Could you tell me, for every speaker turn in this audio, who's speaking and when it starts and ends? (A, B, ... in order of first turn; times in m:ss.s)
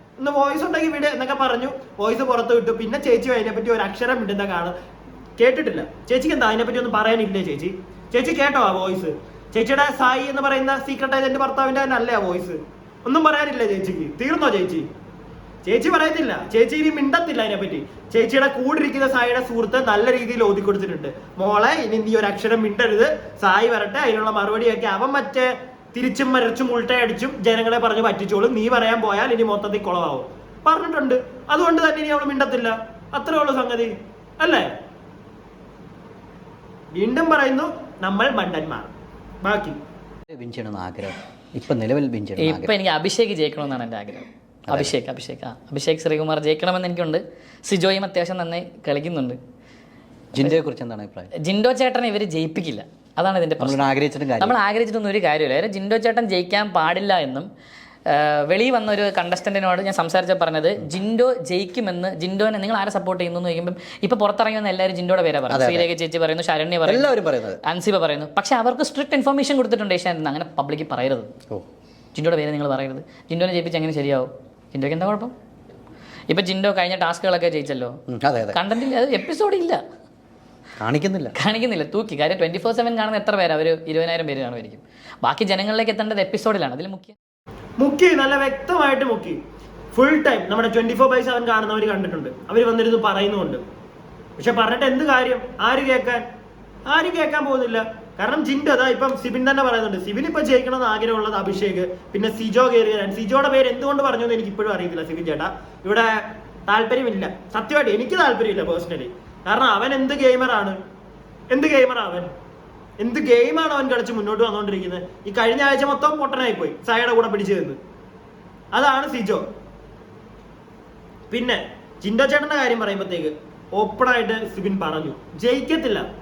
0:00.2-0:04.8 A
0:05.4-0:14.9 A
0:15.6-0:34.7 A
0:36.9-0:38.9 A
0:39.4-0:39.8 A
0:40.3-0:42.7 B
0:42.4-0:49.4 C
0:44.7-0:44.9 B
0:50.3-0:51.3 B
0:51.4-0:57.5 C
0:53.6-0:54.6 B
0:58.0-1:07.1 C
1:05.5-1:05.9 B
1:06.8-1:07.6 B
1:07.6-1:11.3 C
1:12.1-1:15.3 C
1:16.3-1:18.0 C
1:18.1-1:18.6 B
1:18.5-1:19.8 C
1:20.8-1:21.3 B
1:21.4-1:27.1 C
1:27.8-1:29.4 A
1:29.9-1:33.6 A
1:34.4-1:36.2 A
1:36.9-1:50.8 A
1:51.5-1:52.3 A
1:53.0-1:57.8 A
1:58.7-1:59.4 A
2:01.3-2:06.0 A